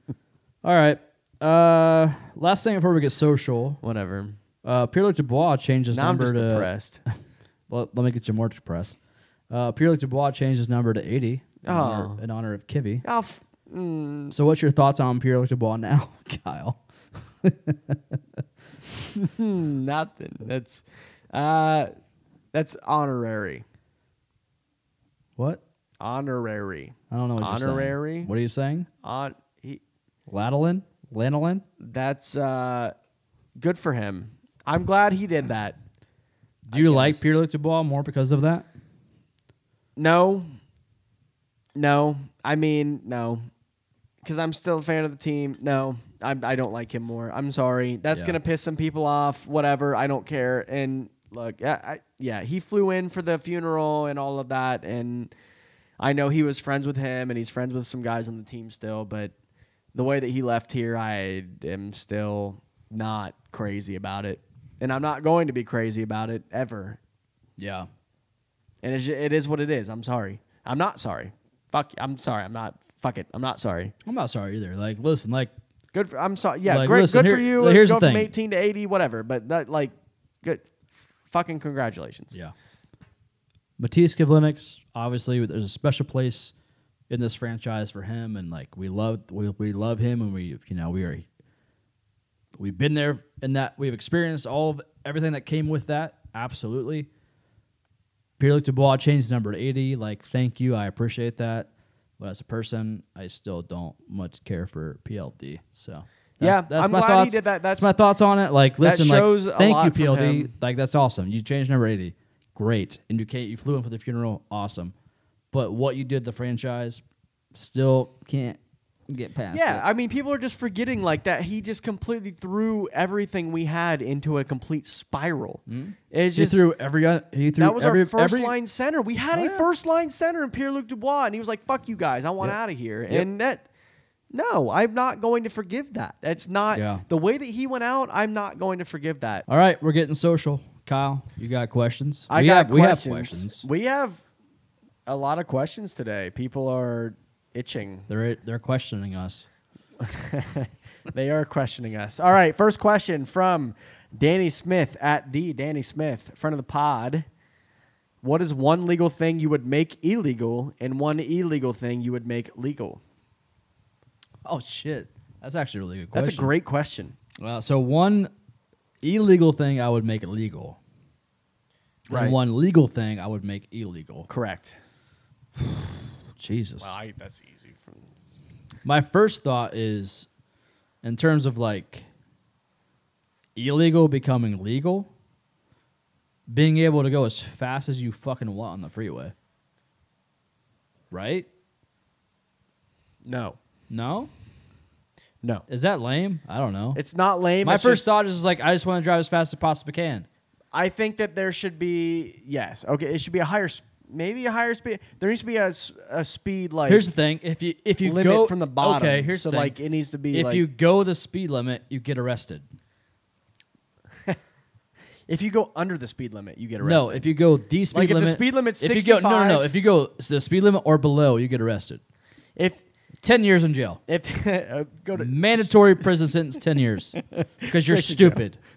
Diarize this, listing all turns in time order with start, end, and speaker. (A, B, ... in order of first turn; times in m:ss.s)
0:00.6-0:03.8 A
0:03.8-0:04.4 B
0:04.6-0:06.7 A
0:05.9-0:07.0 B
0:07.7-0:09.0 A
0:09.5-0:13.0 A
0:11.6-0:12.2 B
0:13.0-0:14.3 B
0:14.3-0:16.8 A
0:17.4-0:18.4 A
0:19.2-0:21.9 B
0:22.5-0:23.6 B
0:26.0-0:28.3 B
0:27.1-0:28.9 A
0:29.0-0:29.8 B
0:30.3-0:31.6 A
0:31.8-0:32.9 B
0:33.6-0:35.8 B
0:36.7-0:38.7 A
0:36.7-0:37.2 B
0:40.0-0:40.5 B
0:41.7-0:43.5 B
0:44.2-0:55.3 B
0:48.1-0:48.4 A
0:56.0-0:59.3 B
0:59.9-1:07.0 B
1:07.6-1:07.9 A
1:08.8-1:13.9 B
1:14.0-1:15.5 A
1:15.9-1:20.6 B
1:16.6-1:18.3 A
1:21.3-1:22.3 B
1:23.8-1:26.5 A
1:27.1-1:31.2 A
1:32.6-1:37.1 A
1:38.4-1:54.9 A
1:46.4-1:47.9 B
1:48.8-1:50.5 B
1:55.5-1:57.0 A
1:57.5-1:59.8 A
1:59.5-2:06.6 B
2:05.7-2:08.5 A
2:07.6-2:13.6 B
2:09.3-2:09.7 A
2:14.3-2:19.4 B
2:16.7-2:17.0 A
2:19.5-2:23.6 A
2:22.3-2:24.2 B
2:25.0-2:28.1 B
2:28.1-2:29.5 A
2:30.0-2:37.2 B
2:38.2-2:43.0 B
2:44.4-2:46.5 A
2:46.1-2:47.2 B
2:47.4-2:48.3 A
2:49.0-2:50.8 A
2:52.1-2:54.3 A
2:52.1-2:52.4 B
2:54.3-2:54.8 B
2:55.6-2:56.9 A
2:56.8-2:58.0 B
2:58.8-3:00.3 A
3:01.0-3:02.0 A
3:03.6-3:05.1 A
3:06.5-3:09.3 A
3:11.1-3:11.5 A
3:13.2-3:13.6 B
3:13.9-3:14.3 A
3:15.7-3:17.0 A
3:16.9-3:18.2 B
3:17.6-3:20.3 A
3:20.7-3:27.1 B
3:26.9-3:29.7 A
3:28.0-3:30.6 B
3:30.3-3:32.6 A
3:35.3-3:37.2 B
3:36.8-3:42.0 A
3:37.9-3:39.7 B
3:42.6-3:42.8 B
3:43.2-3:44.0 A
3:44.1-3:46.0 B
3:45.2-3:48.6 A
3:47.4-3:48.4 B